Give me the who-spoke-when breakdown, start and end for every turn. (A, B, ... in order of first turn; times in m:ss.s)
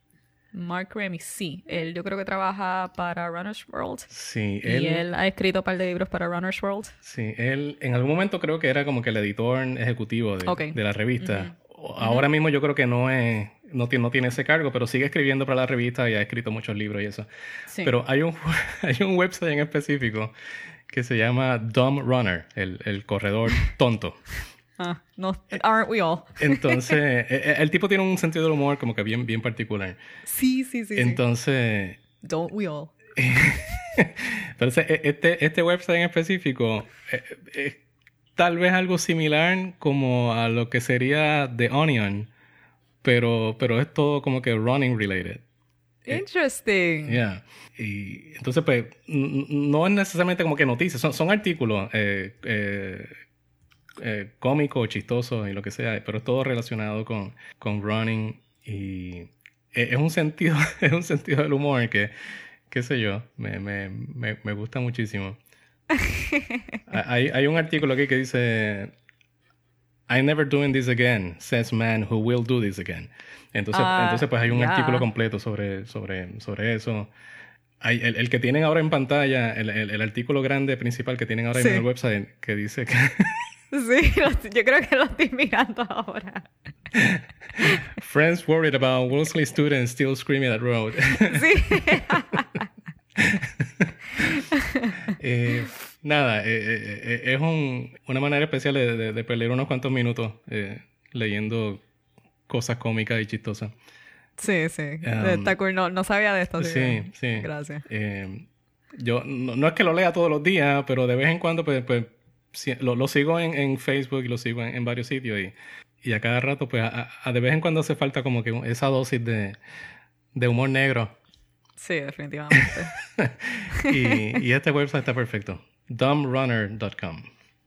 0:00.5-0:04.1 A
0:04.1-0:05.0 B
0:04.6-0:06.9 A
0:07.0-0:17.3 B
0:10.4-0:12.2 A
0:17.7-0:17.9 A
0:17.8-0:20.3 B
0:20.9-0:24.3 B
0:24.8-0:27.0 A
0:26.4-0:30.0 B
0:30.3-0:31.2 A
0:31.0-0:32.0 B
0:32.2-0:33.0 A
0:33.2-0:37.8 B
0:38.4-0:42.3 B
0:43.0-0:45.4 B
0:46.1-0:47.2 A
0:47.1-0:53.2 B
0:54.0-1:02.1 B
1:02.7-1:05.4 B
1:06.0-1:06.6 A
1:06.9-1:08.9 B
1:10.1-1:17.1 B
1:13.7-1:15.1 A
1:17.8-1:23.5 B
1:21.6-1:21.8 A
1:23.7-1:26.5 A
1:26.9-1:27.2 B
1:27.8-1:32.4 B
1:31.3-1:32.6 A
1:33.2-1:34.4 B
1:34.2-1:35.1 A
1:35.1-1:41.8 B
1:42.5-1:43.7 B
1:44.4-1:47.8 A
1:45.0-1:45.6 B
1:46.6-1:59.6 B
2:00.4-2:01.2 B
2:01.8-2:02.9 A
2:02.6-2:07.3 B
2:03.7-2:04.2 A